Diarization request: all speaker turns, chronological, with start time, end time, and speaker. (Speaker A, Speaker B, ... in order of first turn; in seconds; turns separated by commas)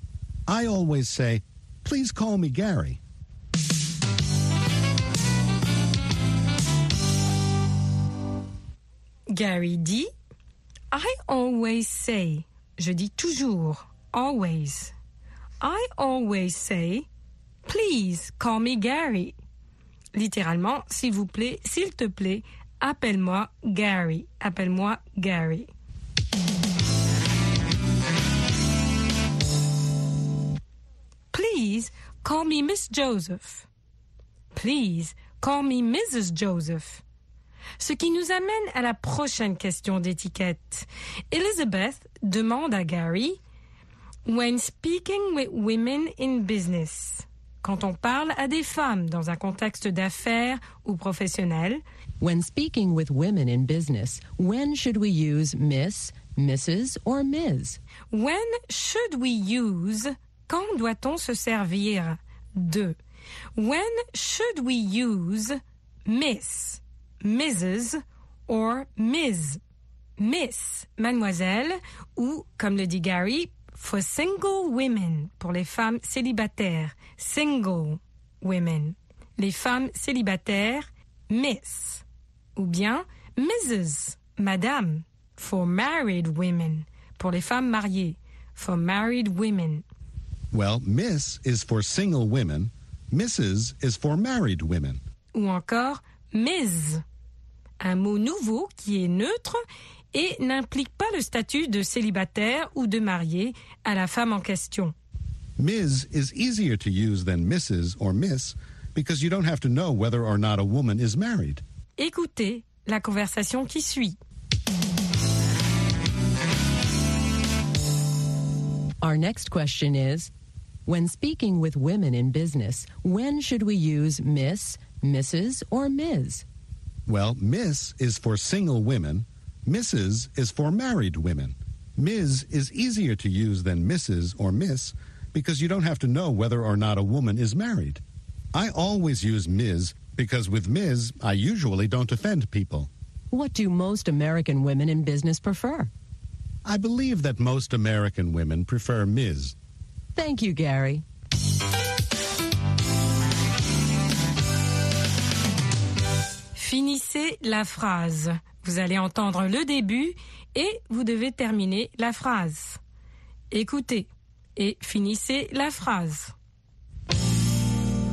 Speaker A: 0.5-3.0, Speaker B: 9.3-10.1, Speaker B: 10.9-14.9, Speaker B: 15.6-17.1, Speaker B: 17.7-19.3, Speaker B: 20.1-25.7, Speaker B: 31.3-33.7, Speaker B: 34.5-37.0, Speaker B: 37.8-43.4, Speaker B: 44.2-51.8, Speaker C: 52.2-57.8, Speaker B: 58.1-63.0, Speaker B: 63.6-69.6, Speaker B: 70.2-82.0, Speaker B: 82.6-89.8, Speaker A: 90.5-95.0, Speaker B: 95.3-97.0, Speaker B: 97.8-99.6, Speaker B: 100.1-105.0, Speaker A: 105.6-111.6, Speaker B: 112.0-114.2, Speaker C: 119.0-120.3, Speaker C: 120.8-126.4, Speaker A: 127.1-138.0, Speaker A: 138.5-142.9, Speaker C: 143.3-145.9, Speaker A: 146.7-149.5, Speaker C: 150.2-151.0, Speaker B: 156.6-162.8, Speaker B: 163.5-166.3